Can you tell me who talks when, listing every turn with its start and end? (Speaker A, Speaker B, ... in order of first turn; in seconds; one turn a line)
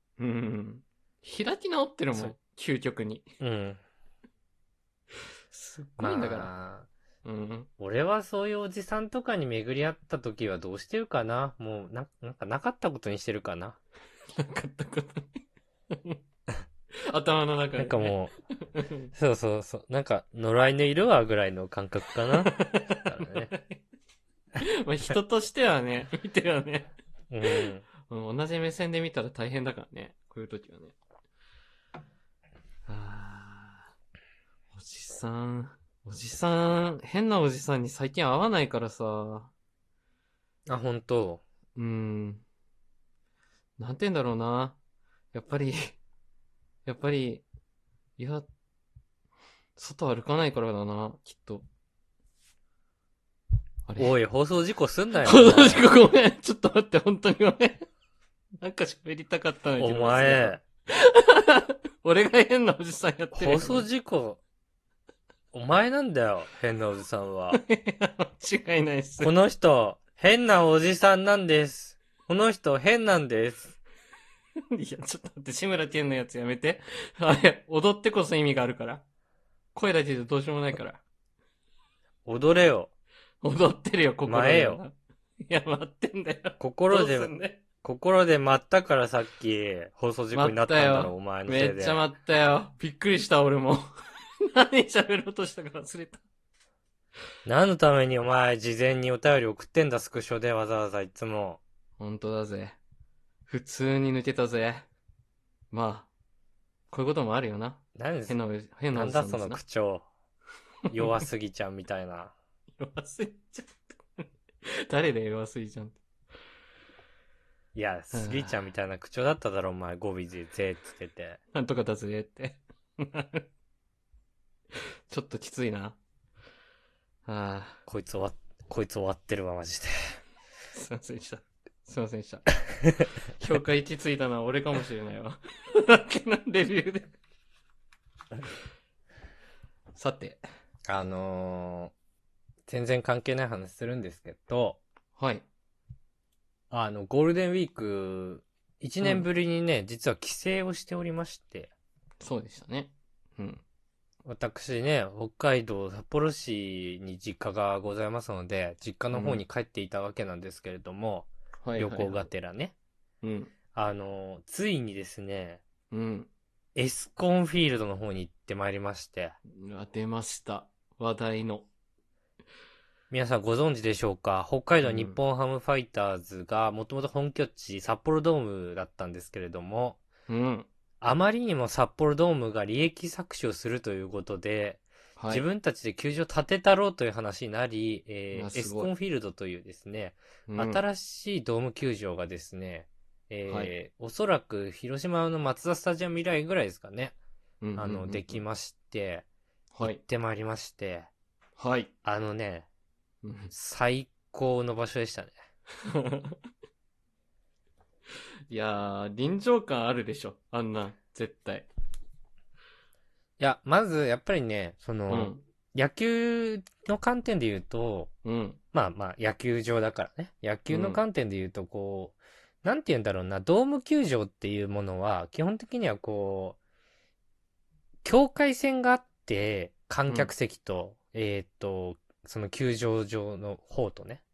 Speaker A: 0.2-3.3
Speaker B: 3.4-3.8
Speaker A: 5.5-6.5
Speaker B: 6.0-6.9
Speaker A: 7.2-7.7
Speaker B: 7.8-13.8
Speaker A: 14.3-15.4
Speaker A: 15.9-16.2
Speaker A: 17.1-19.1
Speaker B: 17.8-18.3
Speaker B: 19.1-23.5
Speaker A: 22.4-23.8
Speaker A: 24.6-26.9
Speaker B: 27.3-27.9
Speaker A: 27.4-31.0
Speaker A: 32.9-33.9
Speaker A: 34.7-39.5
Speaker B: 40.7-41.4
Speaker A: 41.8-42.4
Speaker A: 43.8-44.8
Speaker A: 45.3-46.0
Speaker A: 46.9-47.4
Speaker A: 48.2-48.5
Speaker A: 49.8-51.7
Speaker A: 53.9-54.2
Speaker B: 54.0-55.9
Speaker A: 55.2-57.9
Speaker A: 58.6-63.9
Speaker B: 59.8-60.6
Speaker B: 63.3-64.4
Speaker B: 65.5-67.6
Speaker A: 67.5-69.3
Speaker B: 69.2-73.8
Speaker A: 74.7-79.0
Speaker A: 79.8-81.0
Speaker B: 82.3-82.9
Speaker A: 83.4-87.6
Speaker B: 84.3-84.8
Speaker B: 86.6-92.0
Speaker A: 90.3-93.9
Speaker A: 94.4-96.2
Speaker B: 97.5-101.6
Speaker A: 102.0-102.8
Speaker A: 103.5-104.9
Speaker A: 105.7-106.1
Speaker A: 106.9-109.6
Speaker B: 108.0-108.4
Speaker B: 108.9-110.1
Speaker B: 110.9-112.3
Speaker A: 112.8-116.0
Speaker B: 117.8-121.4
Speaker A: 118.1-118.6
Speaker A: 121.5-123.5
Speaker A: 125.1-126.0
Speaker A: 127.3-127.8
Speaker B: 127.9-130.2
Speaker A: 130.7-132.6
Speaker A: 133.3-137.1
Speaker A: 139.9-140.4
Speaker B: 140.9-141.9
Speaker B: 142.7-144.8
Speaker A: 145.2-145.4
Speaker B: 146.7-151.7
Speaker A: 149.0-149.3
Speaker A: 152.2-153.6
Speaker B: 154.3-162.7
Speaker A: 159.1-159.4
Speaker A: 161.6-162.2
Speaker A: 163.2-163.5
Speaker B: 163.8-165.6
Speaker A: 165.9-166.3
Speaker B: 166.8-169.4
Speaker A: 169.6-171.7
Speaker B: 173.1-180.0
Speaker A: 174.8-175.2
Speaker A: 180.3-180.7
Speaker B: 181.0-197.2
Speaker A: 185.2-185.4
Speaker A: 188.3-188.9
Speaker A: 190.5-190.8
Speaker A: 193.5-193.7
Speaker A: 197.6-198.4
Speaker B: 197.8-199.3
Speaker A: 199.7-200.0
Speaker B: 199.8-201.1
Speaker A: 201.6-201.9
Speaker B: 202.1-202.7
Speaker A: 203.2-203.5
Speaker B: 203.5-205.4
Speaker A: 205.9-206.4
Speaker A: 208.5-211.7
Speaker B: 213.4-218.1
Speaker A: 215.1-215.4
Speaker A: 218.2-218.6
Speaker B: 218.7-226.6
Speaker A: 220.7-221.0
Speaker B: 228.0-234.2
Speaker A: 230.1-230.3